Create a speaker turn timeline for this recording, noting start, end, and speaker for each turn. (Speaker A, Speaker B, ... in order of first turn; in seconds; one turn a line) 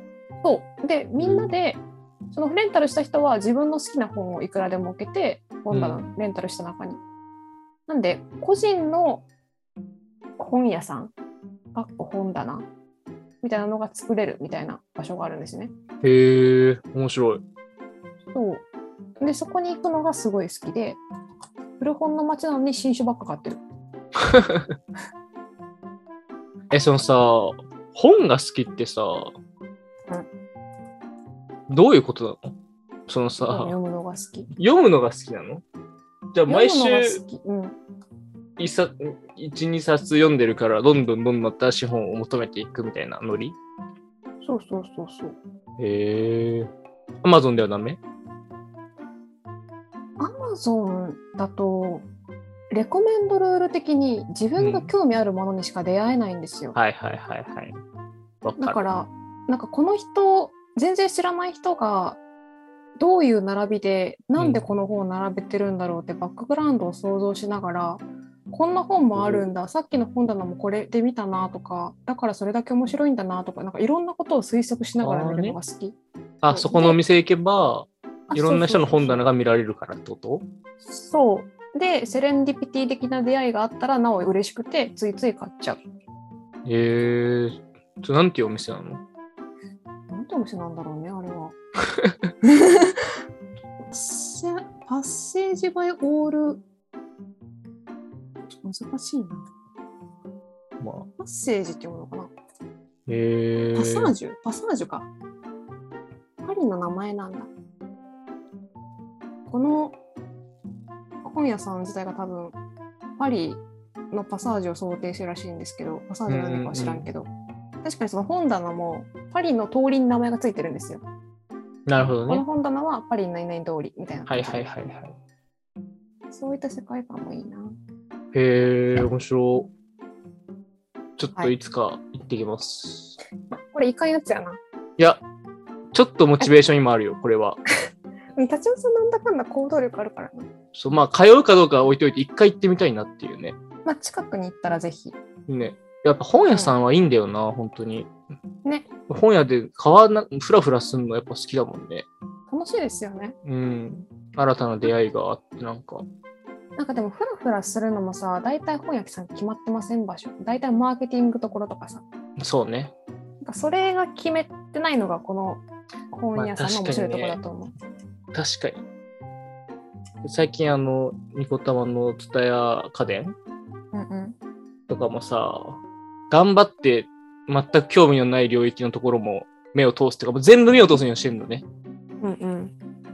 Speaker A: 0.4-7.0
Speaker B: 1.2-1.5
Speaker B: 5.7-6.0
Speaker A: 7.9-9.2
Speaker A: 10.4-11.1
Speaker A: 11.7-12.7
Speaker A: 13.4-15.7
Speaker B: 16.0-17.4
Speaker A: 18.3-18.6
Speaker A: 19.2-21.0
Speaker A: 21.8-23.6
Speaker B: 24.2-24.7
Speaker B: 26.7-29.3
Speaker B: 31.7-32.5
Speaker B: 33.1-33.8
Speaker A: 33.5-34.5
Speaker B: 34.5-35.6
Speaker B: 36.3-37.2
Speaker A: 36.5-37.8
Speaker B: 38.6-43.6
Speaker A: 44.4-45.4
Speaker B: 45.8-46.7
Speaker B: 47.2-48.0
Speaker A: 50.2-52.1
Speaker A: 52.7-56.8
Speaker B: 54.6-54.9
Speaker B: 56.7-57.8
Speaker B: 58.4-58.8
Speaker A: 58.6-62.2
Speaker A: 63.0-76.0
Speaker B: 69.1-69.5
Speaker B: 75.0-75.6
Speaker B: 76.4-80.5
Speaker A: 76.5-77.0
Speaker A: 78.3-79.2
Speaker A: 80.8-85.8
Speaker B: 86.7-89.0
Speaker A: 90.1-91.5
Speaker A: 92.4-93.1
Speaker A: 93.9-96.6
Speaker A: 98.6-99.5
Speaker B: 100.8-101.1
Speaker A: 101.2-102.3
Speaker B: 103.1-104.1
Speaker A: 103.7-105.1
Speaker A: 106.4-107.5
Speaker A: 109.5-110.0
Speaker A: 111.2-112.6
Speaker A: 113.2-117.3
Speaker B: 116.3-117.1
Speaker A: 117.8-121.0
Speaker B: 121.9-122.4
Speaker A: 122.1-124.7
Speaker B: 124.3-125.2
Speaker A: 126.3-127.7
Speaker B: 128.3-129.7
Speaker B: 131.2-133.2
Speaker A: 133.7-134.6
Speaker B: 135.9-137.6
Speaker A: 138.3-140.4
Speaker B: 140.7-143.6
Speaker A: 143.8-145.2
Speaker B: 145.5-148.1
Speaker A: 148.6-148.9
Speaker B: 149.1-152.1
Speaker A: 152.5-153.3
Speaker B: 153.4-156.1
Speaker A: 156.8-162.0
Speaker B: 162.4-162.9
Speaker A: 163.4-167.7
Speaker B: 166.3-167.4
Speaker B: 168.3-168.8
Speaker B: 170.2-173.3
Speaker A: 173.9-174.4
Speaker B: 174.9-181.6
Speaker A: 182.2-182.7